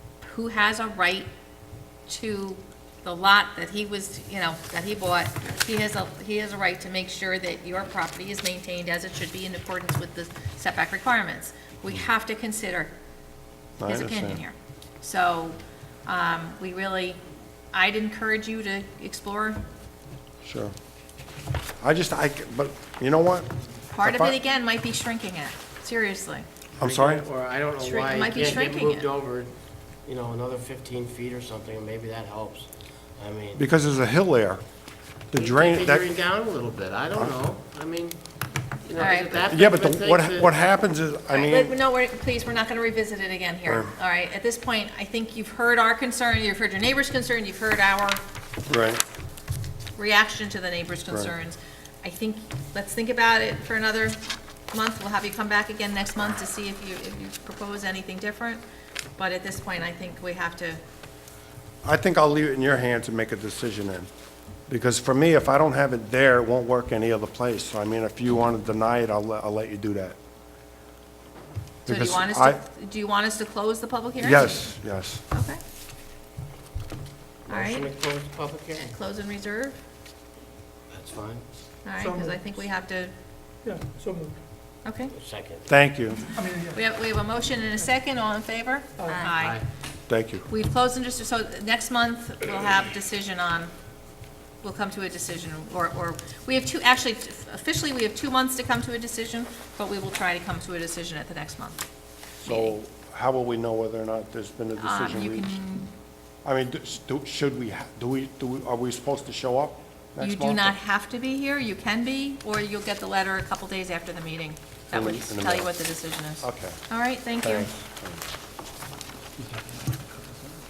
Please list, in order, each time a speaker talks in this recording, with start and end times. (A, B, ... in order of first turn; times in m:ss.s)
0:00.2-0:01.3 A
0:02.1-0:12.9 A
0:13.8-0:14.4 B
0:13.9-0:17.2 A
0:17.7-0:19.6 A
0:20.4-0:20.7 B
0:21.8-0:24.4 B
0:23.9-0:26.4 A
0:26.8-0:27.2 B
0:26.8-0:29.5 C
0:27.8-0:29.1 A
0:30.0-0:33.6 C
0:33.6-0:34.6 B
0:35.3-0:36.1 B
0:35.3-0:38.2 C
0:38.8-0:40.5 C
0:39.0-0:39.4 A
0:39.5-0:41.7 B
0:41.3-0:48.2 A
0:43.6-0:43.9 B
0:48.7-0:49.0 B
0:50.0-0:54.2 A
0:51.1-0:51.3 B
0:54.7-0:58.6 A
0:59.2-1:00.8 A
1:01.8-1:04.1 B
1:04.7-1:10.2 B
1:11.8-1:12.6 B
1:11.8-1:14.7 A
1:14.2-1:15.2 B
1:15.3-1:15.6 A
1:17.4-1:19.0 C
1:17.5-1:17.9 A
1:18.9-1:19.8 A
1:20.9-1:21.4 C
1:21.8-1:23.1 A
1:22.0-1:22.4 D
1:23.6-1:24.4 D
1:24.8-1:25.1 A
1:25.2-1:25.7 C
1:25.7-1:26.3 B
1:26.3-1:26.8 D
1:26.7-1:29.6 A
1:29.0-1:29.3 D
1:29.4-1:29.6 C
1:30.1-1:30.5 B
1:30.5-1:33.7 A
1:34.6-1:41.8 A
1:42.4-1:45.6 B
1:42.4-1:42.7 A
1:44.8-1:45.9 A
1:46.4-1:50.8 B
1:50.2-1:57.7 A
1:54.9-1:55.7 B
1:56.4-1:56.8 B
1:57.4-1:58.2 B